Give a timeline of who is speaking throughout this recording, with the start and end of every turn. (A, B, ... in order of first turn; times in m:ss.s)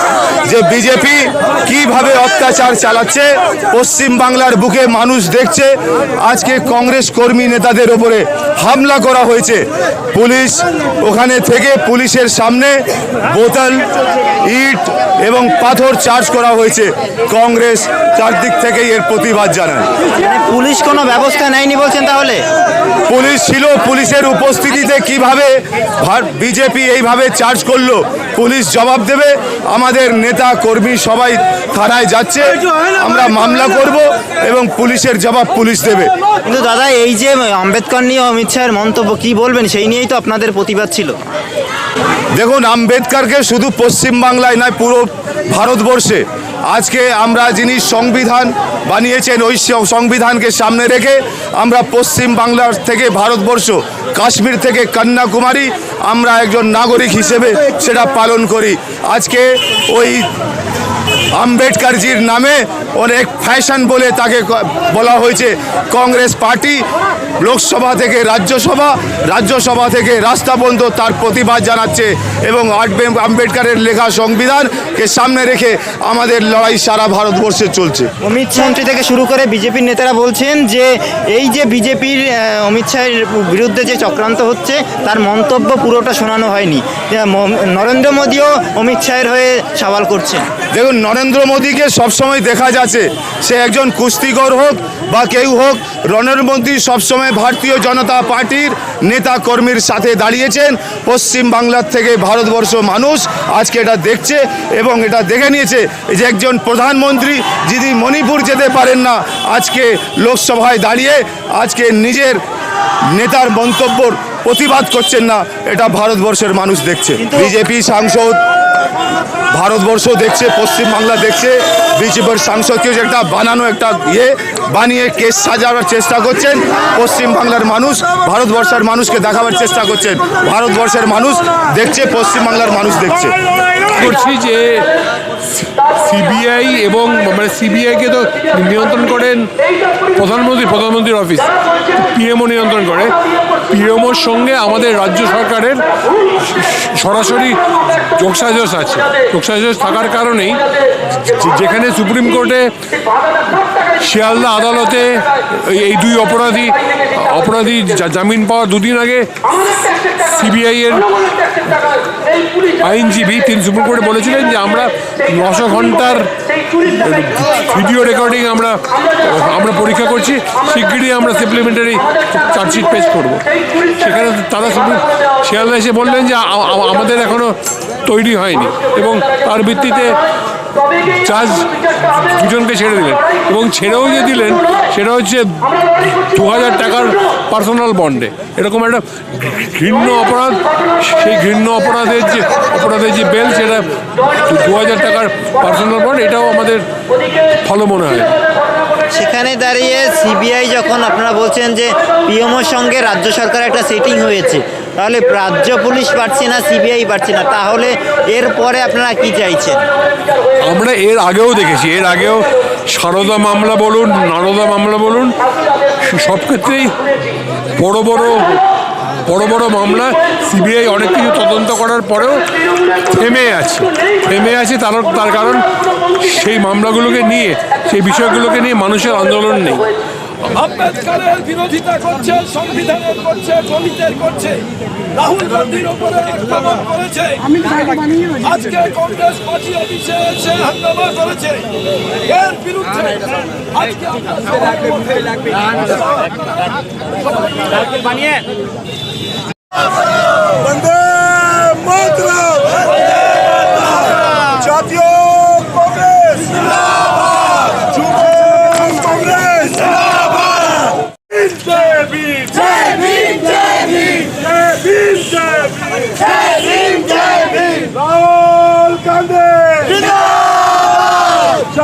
0:00.4-0:13.8 A
0:14.4-0:19.9 A
0:20.2-0:22.5 B
0:23.1-0:36.1 A
0:36.4-0:41.2 B
0:42.4-1:00.3 A
1:01.4-1:06.8 A
1:07.4-1:18.1 A
1:18.2-1:30.5 B
1:30.7-1:52.4 A
1:53.1-1:58.4 A
1:59.5-2:13.4 A
2:13.9-2:14.9 C
2:15.8-2:19.5 C
2:20.1-2:30.7 C
2:31.2-2:32.7 C
2:34.0-2:41.9 C
2:42.8-3:00.2 C
3:01.0-3:16.8 C
3:17.5-3:18.4 C
3:19.1-3:29.9 B
3:30.6-3:35.4 C
3:36.0-3:37.1 C
3:37.8-3:38.6 C
3:39.3-3:49.9 C
3:50.5-4:01.7 D
4:02.2-4:05.6 D
4:11.7-4:12.4 D
4:15.3-4:16.4 D
4:22.5-4:23.6 D
4:25.2-4:25.4 D
4:26.9-4:27.7 D